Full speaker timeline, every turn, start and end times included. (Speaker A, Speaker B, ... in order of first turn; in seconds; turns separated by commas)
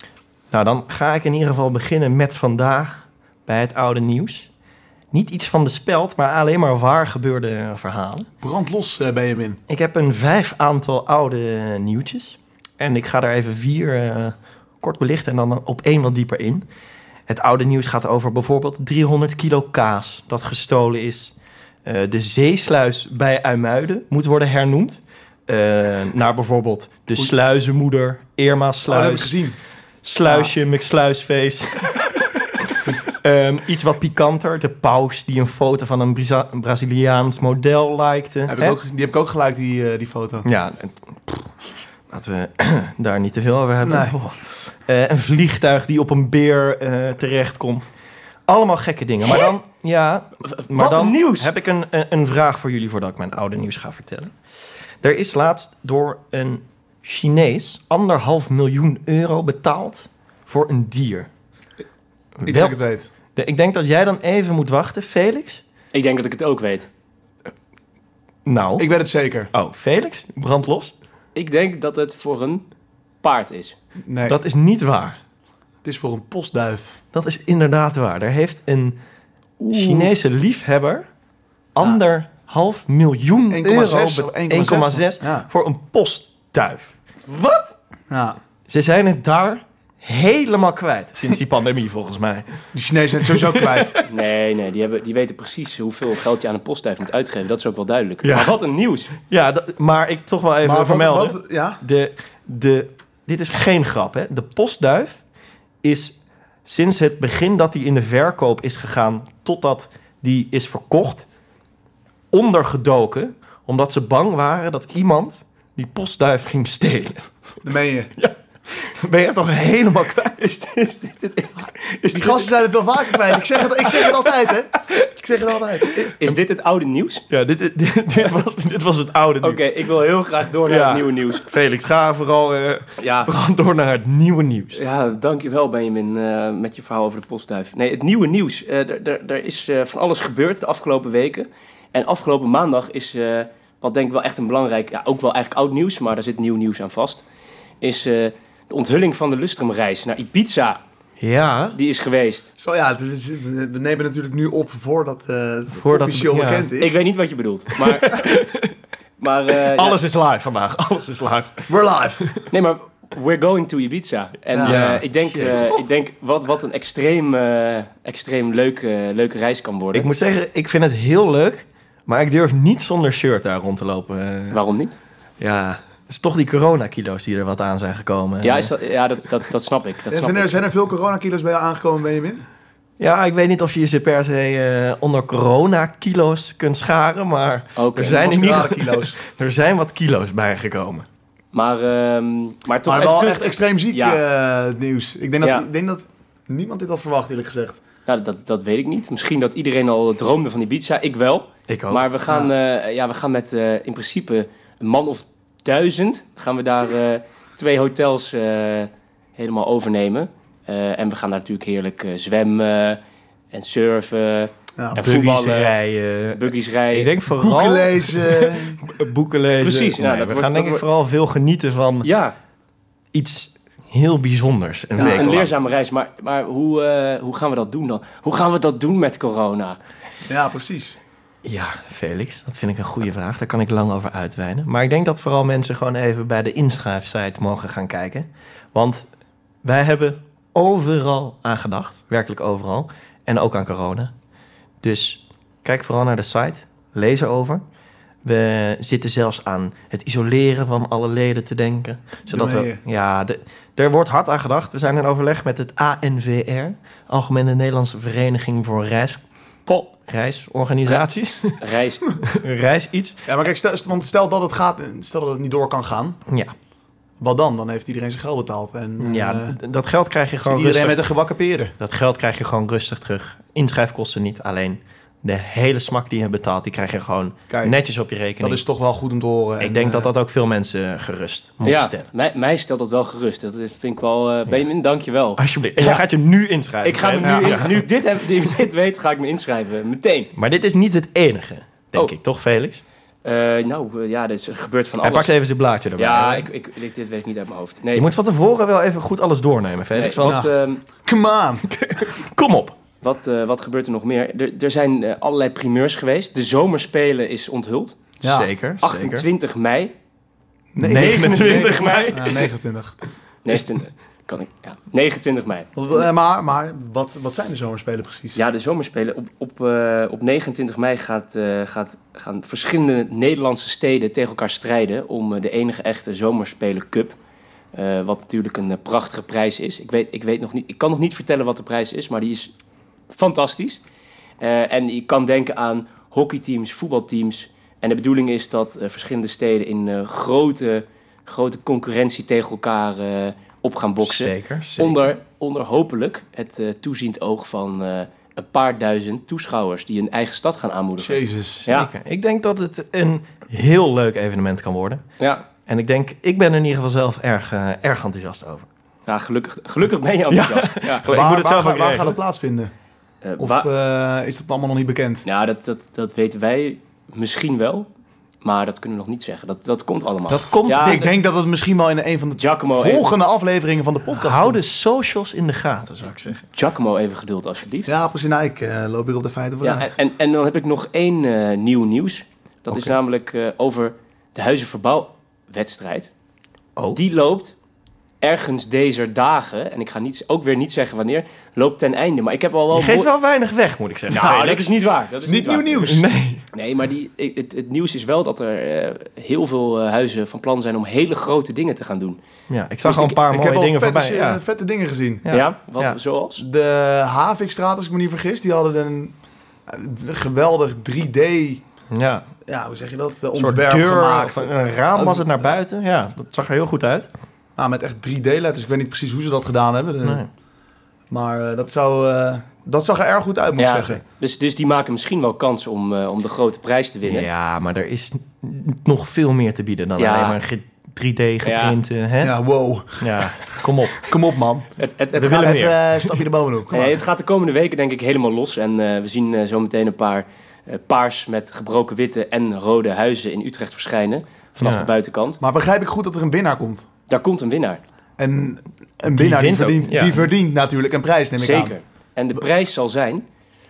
Speaker A: 0.5-4.5, Speaker A: 5.1-8.3, Speaker B: 8.4-9.6, Speaker A: 9.7-16.6, Speaker A: 17.3-21.3, Speaker A: 21.9-29.4, Speaker B: 28.9-29.6, Speaker A: 30.0-38.8, Speaker B: 30.3-30.5, Speaker B: 38.5-40.5, Speaker A: 40.4-41.4, Speaker A: 42.1-47.9, Speaker B: 43.8-44.2, Speaker A: 48.5-54.4, Speaker C: 50.5-51.5, Speaker A: 55.0-61.3, Speaker A: 62.4-62.8, Speaker B: 62.5-63.1, Speaker A: 63.4-65.6, Speaker C: 65.9-66.9, Speaker A: 68.5-68.9, Speaker B: 68.8-69.5, Speaker A: 69.5-70.9, Speaker C: 71.3-72.6, Speaker C: 73.2-73.8, Speaker B: 74.0-74.4, Speaker A: 74.3-75.2, Speaker B: 75.8-77.0, Speaker A: 77.1-79.0, Speaker C: 79.6-80.1, Speaker A: 79.7-81.1, Speaker A: 81.8-87.0, Speaker B: 83.5-85.5, Speaker C: 87.3-87.7, Speaker B: 88.1-88.4, Speaker A: 88.7-92.7, Speaker B: 92.7-94.0, Speaker A: 93.3-93.9, Speaker C: 94.0-99.2, Speaker A: 98.2-98.5, Speaker A: 99.3-105.2, Speaker B: 100.6-101.8, Speaker A: 105.8-111.3, Speaker A: 112.3-117.3, Speaker B: 117.6-118.1, Speaker A: 118.2-120.6, Speaker C: 120.5-122.3, Speaker A: 122.0-122.5, Speaker B: 122.1-126.1, Speaker A: 123.3-124.3, Speaker A: 125.8-126.1, Speaker C: 126.2-127.2, Speaker A: 127.3-129.7, Speaker C: 129.4-131.4, Speaker A: 130.7-134.8, Speaker C: 133.0-133.3, Speaker C: 134.7-147.2, Speaker C: 147.8-150.8, Speaker A: 151.2-151.8, Speaker C: 151.7-152.5, Speaker B: 152.6-157.0, Speaker A: 155.7-156.7, Speaker C: 156.8-158.3, Speaker A: 157.9-158.7, Speaker C: 159.2-160.0, Speaker A: 159.6-161.7, Speaker B: 161.7-162.2, Speaker C: 162.5-170.1, Speaker B: 164.5-164.9, Speaker A: 164.6-165.8, Speaker A: 169.9-174.6, Speaker C: 174.5-175.0, Speaker A: 175.4-178.7, Speaker C: 178.4-180.6, Speaker B: 180.1-182.4, Speaker A: 183.0-191.1, Speaker C: 187.8-188.3, Speaker B: 188.1-189.2, Speaker C: 191.5-194.2, Speaker B: 192.8-197.8, Speaker C: 198.1-213.0, Speaker A: 201.7-202.1, Speaker C: 213.5-215.7, Speaker B: 214.8-215.1, Speaker A: 214.9-222.1, Speaker C: 216.3-217.1, Speaker B: 217.4-218.8, Speaker C: 219.6-220.8, Speaker C: 222.0-222.3, Speaker A: 223.1-225.5, Speaker C: 225.0-229.8, Speaker B: 225.0-225.3, Speaker B: 230.2-231.0, Speaker A: 231.4-239.1, Speaker A: 239.6-244.1, Speaker A: 244.8-247.6, Speaker A: 248.2-259.2, Speaker B: 252.3-252.8, Speaker A: 260.0-261.6, Speaker C: 260.9-262.1, Speaker A: 262.2-263.3, Speaker B: 263.3-266.2, Speaker A: 266.3-266.5, Speaker B: 267.2-269.6, Speaker A: 269.0-271.0, Speaker B: 270.5-271.8, Speaker A: 271.8-278.6, Speaker B: 277.5-277.8, Speaker B: 278.4-280.1, Speaker A: 279.6-282.1, Speaker C: 281.6-286.0, Speaker A: 285.4-287.8, Speaker C: 286.8-290.3, Speaker B: 287.2-287.6, Speaker A: 290.4-292.8, Speaker C: 293.2-295.3, Speaker A: 295.0-296.5, Speaker C: 296.0-298.1, Speaker A: 297.9-300.5, Speaker C: 299.9-300.8, Speaker B: 300.2-301.7, Speaker A: 301.7-302.8, Speaker C: 303.0-308.0, Speaker B: 308.2-308.5, Speaker A: 308.2-309.3, Speaker C: 308.8-309.9, Speaker B: 310.8-312.9, Speaker A: 310.8-312.5, Speaker C: 310.9-312.2, Speaker C: 313.4-315.7, Speaker B: 315.8-318.4, Speaker C: 318.4-327.1, Speaker C: 327.7-332.5, Speaker C: 333.1-333.8, Speaker C: 334.4-351.9, Speaker A: 344.0-345.0, Speaker B: 351.0-351.6, Speaker A: 351.7-355.0, Speaker C: 355.2-355.4, Speaker A: 355.7-358.7, Speaker C: 359.1-361.1, Speaker A: 360.3-362.2, Speaker B: 361.1-362.7, Speaker C: 363.2-363.7, Speaker B: 363.4-365.2, Speaker C: 365.3-367.9, Speaker C: 368.4-371.1, Speaker A: 370.3-371.1, Speaker B: 370.7-374.6, Speaker C: 372.4-373.1, Speaker A: 374.1-376.4, Speaker C: 376.5-377.9, Speaker B: 377.9-379.9, Speaker C: 379.6-386.1, Speaker C: 386.9-387.5, Speaker C: 388.2-393.1, Speaker A: 392.7-394.7, Speaker C: 394.1-396.0, Speaker B: 394.2-394.4, Speaker B: 395.2-396.1, Speaker A: 395.9-396.4, Speaker C: 396.5-402.2, Speaker A: 402.5-404.4, Speaker C: 402.8-403.2, Speaker B: 403.3-405.2, Speaker A: 405.2-406.0, Speaker C: 405.3-406.4, Speaker B: 406.4-409.1, Speaker B: 409.7-411.6, Speaker A: 411.9-412.3, Speaker B: 412.5-415.5, Speaker A: 413.4-417.1, Speaker B: 417.6-420.2, Speaker A: 420.0-420.3, Speaker B: 421.1-424.0, Speaker C: 423.6-427.3, Speaker A: 427.1-432.3, Speaker C: 430.0-430.4, Speaker C: 431.4-431.8, Speaker B: 432.2-433.3, Speaker A: 433.0-434.1, Speaker B: 433.9-434.7, Speaker C: 434.8-435.7, Speaker A: 435.1-436.2, Speaker B: 435.3-437.0, Speaker C: 436.7-445.4, Speaker A: 444.6-444.9, Speaker B: 445.4-446.9, Speaker C: 447.1-447.8, Speaker B: 448.2-451.8, Speaker A: 449.1-450.2, Speaker C: 451.4-453.2